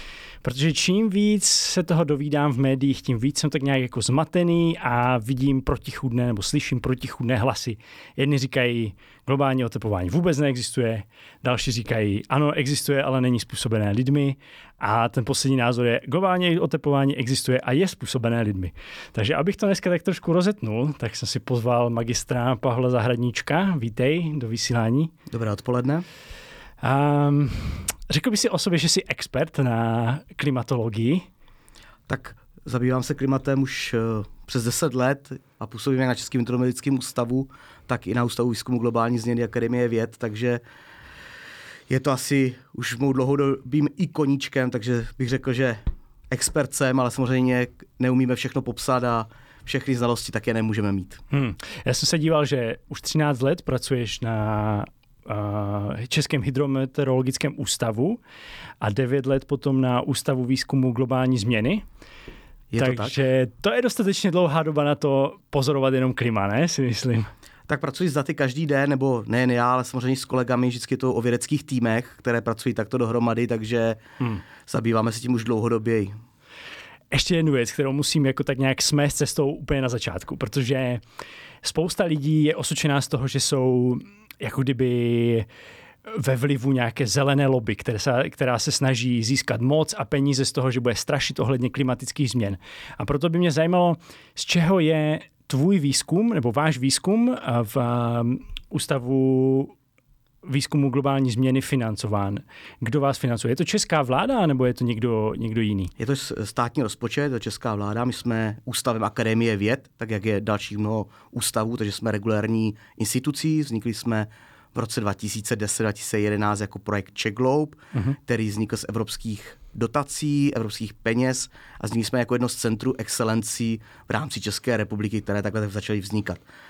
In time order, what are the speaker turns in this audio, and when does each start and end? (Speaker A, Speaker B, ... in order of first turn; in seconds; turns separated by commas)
Speaker A: 0.4-25.1, Speaker B: 25.3-26.1, Speaker A: 26.8-31.3, Speaker B: 32.1-40.6, Speaker B: 41.9-51.2, Speaker A: 51.3-58.2, Speaker A: 58.8-61.9, Speaker B: 62.7-63.1, Speaker A: 62.8-67.3, Speaker B: 67.7-74.0, Speaker B: 74.7-76.2, Speaker A: 77.1-81.0, Speaker A: 81.6-85.5, Speaker A: 86.1-99.8, Speaker A: 100.4-105.9, Speaker B: 106.0-126.4